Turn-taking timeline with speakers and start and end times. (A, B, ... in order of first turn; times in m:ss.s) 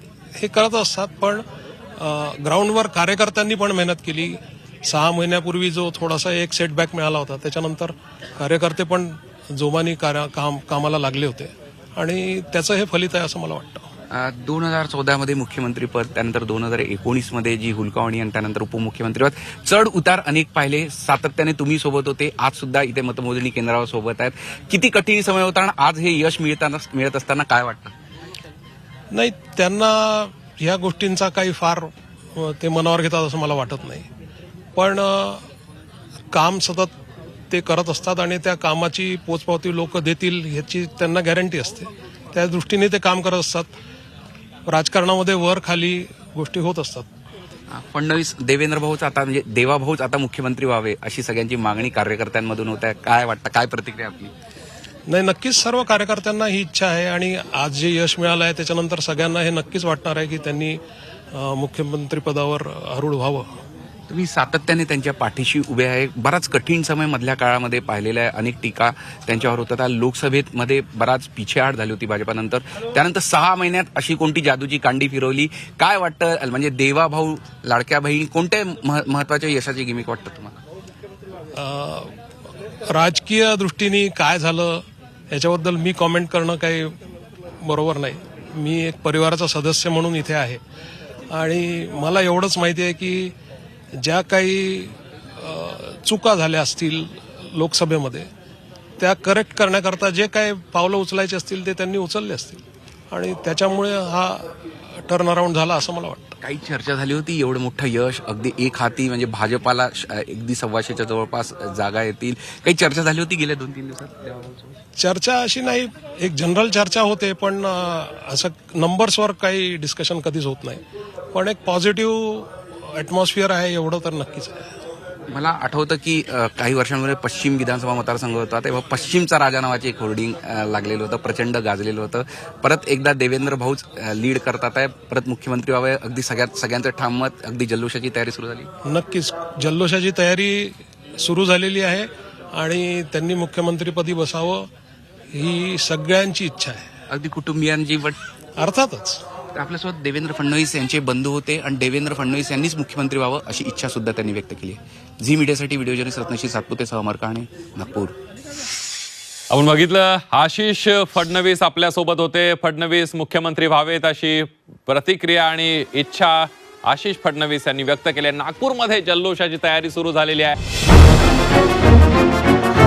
0:00.4-0:01.4 A
0:02.0-0:13.9 A
0:14.1-0:27.9 B
0:29.1-0:34.1 A
0:34.8-0:35.4 A
0:36.3-0:36.9 A
0:37.5-0:43.7 A
0:44.7-0:47.1 A
0:47.7-0:54.3 B
0:55.1-1:00.8 A
1:01.3-1:03.5 A
1:04.1-1:20.6 B
1:21.5-1:22.2 A
1:22.9-1:27.0 A
1:27.6-1:30.6 A
1:31.3-1:33.3 A
1:34.0-1:38.3 A
1:39.0-1:46.4 A
1:46.4-1:54.8 B
1:55.0-2:00.8 A
2:01.3-2:04.6 A
2:05.3-2:18.7 B
2:18.8-2:24.7 A
2:25.3-2:26.9 A
2:27.1-2:28.2 B
2:28.6-2:29.2 A
2:29.5-2:38.2 B
2:39.5-2:50.6 C